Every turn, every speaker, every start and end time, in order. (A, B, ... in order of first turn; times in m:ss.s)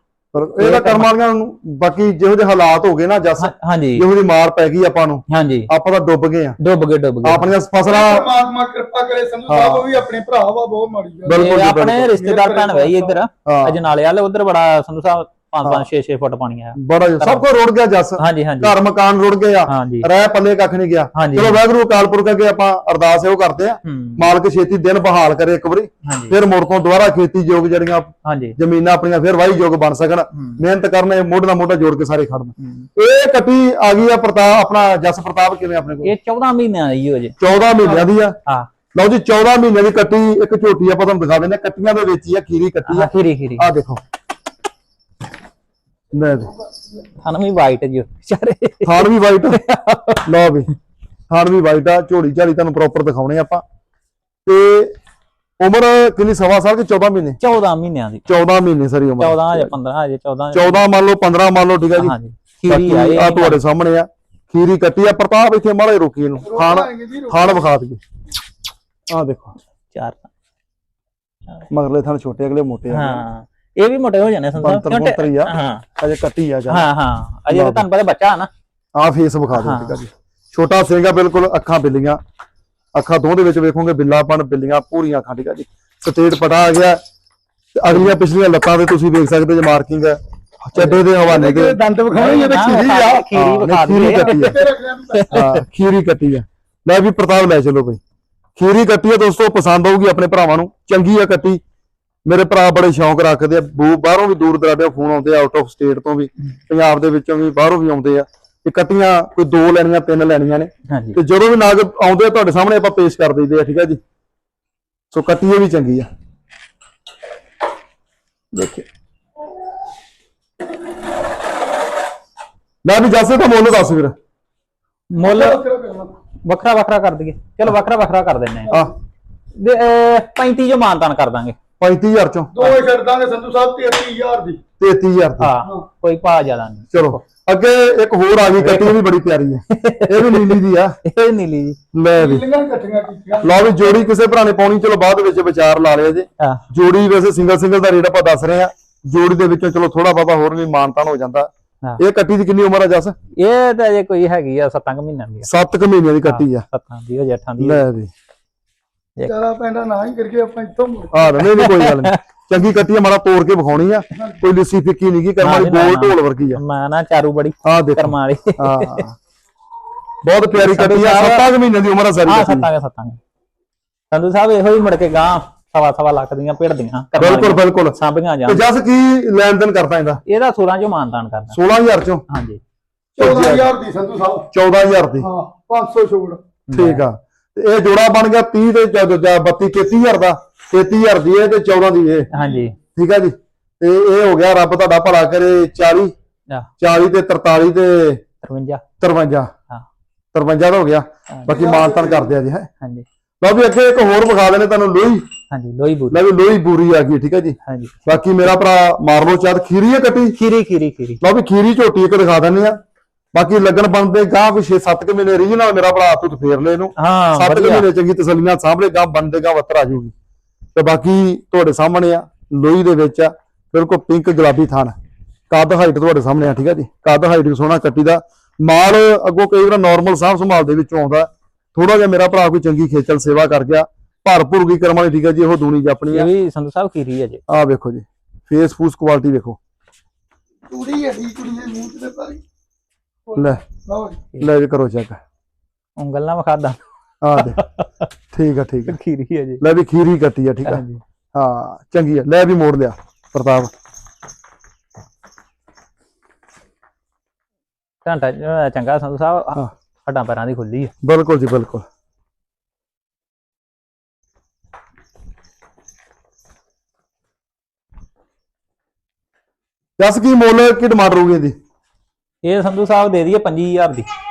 0:00.3-0:06.6 A
0:00.6-0:01.1 B
0:03.4-0:04.0 B
0:05.3-0:05.7 B
0:06.6-0:07.5 B
0:07.2-0:08.3 A
0:07.8-0:11.6 C
0:09.5-0:09.8 A
0:11.3-0:12.1 A
0:11.3-0:17.4 B
0:12.1-0:13.2 C
0:13.4-0:13.8 A
0:16.8-0:36.1 A
0:18.2-0:18.8 B
0:19.7-0:20.1 B
0:21.1-0:21.6 B
0:23.8-0:24.3 B
0:26.0-0:26.4 B
0:28.2-0:28.6 B
0:30.3-0:30.6 B
0:32.6-0:32.9 B
0:36.0-0:38.7 B
0:37.4-0:38.4 A
0:38.9-0:44.0 A
0:42.8-0:43.7 B
0:46.1-0:46.5 A
0:47.2-0:50.2 B
0:48.8-0:49.6 A
0:50.2-0:50.7 A
0:51.3-0:53.6 A
0:54.4-0:54.9 A
0:55.6-0:57.4 A
0:57.4-0:58.2 B
0:58.3-0:59.7 A
0:59.2-1:00.8 B
1:00.5-1:02.2 A
1:02.0-1:03.6 B
1:02.7-1:08.0 A
1:06.4-1:07.7 C
1:09.1-1:09.5 A
1:09.9-1:10.3 B
1:11.7-1:13.2 A
1:12.9-1:15.8 B
1:14.6-1:16.9 A
1:16.7-1:18.5 B
1:17.5-1:17.8 A
1:18.9-1:22.2 A
1:19.5-1:20.0 B
1:22.9-1:27.0 A
1:27.7-1:31.8 A
1:30.8-1:33.3 C
1:32.1-1:34.6 B
1:33.3-1:34.5 A
1:34.0-1:35.4 C
1:35.1-1:35.6 B
1:35.3-1:38.0 A
1:38.6-1:41.6 A
1:42.2-1:54.0 A
1:50.9-1:51.2 B
1:55.1-1:56.1 A
1:58.5-1:58.8 A
2:02.8-2:04.1 A
2:05.1-2:05.6 B
2:05.2-2:06.2 C
2:06.4-2:08.7 B
2:09.6-2:11.6 B
2:11.8-2:12.5 A
2:12.5-2:14.6 C
2:14.8-2:15.5 A
2:15.4-2:17.2 B
2:16.9-2:21.0 A
2:18.6-2:19.0 B
2:19.7-2:21.8 B
2:21.9-2:22.4 A
2:22.2-2:23.6 C
2:23.4-2:33.1 A
2:33.4-2:35.5 B
2:35.4-2:36.6 A
2:36.2-2:37.8 B
2:37.6-2:38.1 A
2:39.2-2:41.1 C
2:41.1-2:46.6 A
2:41.4-2:42.2 B
2:45.4-2:49.0 B
2:47.6-2:49.2 A
2:50.2-2:52.7 A
2:50.5-2:51.5 B
2:52.2-2:53.2 B
2:54.1-2:58.6 B
2:57.2-3:00.2 A
3:00.2-3:01.6 B
3:01.5-3:02.2 A
3:02.3-3:02.6 B
3:03.2-3:04.5 C
3:03.2-3:03.7 A
3:04.5-3:05.3 A
3:05.2-3:06.4 C
3:06.7-3:07.0 B
3:06.7-3:12.3 A
3:12.3-3:12.8 B
3:12.3-3:12.6 C
3:12.9-3:16.1 A
3:16.8-3:18.2 A
3:18.4-3:18.8 B
3:19.0-3:19.5 A
3:20.3-3:22.7 A
3:21.5-3:22.3 C
3:23.4-3:25.2 A
3:25.5-3:26.2 B
3:26.1-3:30.4 A
3:27.6-3:28.0 B
3:30.4-3:31.2 B
3:31.2-3:32.8 A
3:33.3-3:40.1 A
3:37.0-3:37.8 B
3:40.7-3:44.9 A
3:45.5-3:56.3 A
3:56.1-3:57.4 B
3:57.5-3:59.6 A
4:00.7-4:02.4 C
4:03.3-4:04.2 C
4:03.4-4:03.6 A
4:04.4-4:05.2 A
4:06.0-4:06.8 B
4:07.2-4:07.6 A
4:07.4-4:08.0 B
4:08.3-4:09.0 A
4:08.9-4:09.6 B
4:09.6-4:10.8 A
4:10.6-4:11.0 B
4:11.3-4:13.7 A
4:18.0-4:20.9 B
4:21.0-4:21.8 A
4:30.0-4:31.5 A
4:32.4-4:34.1 B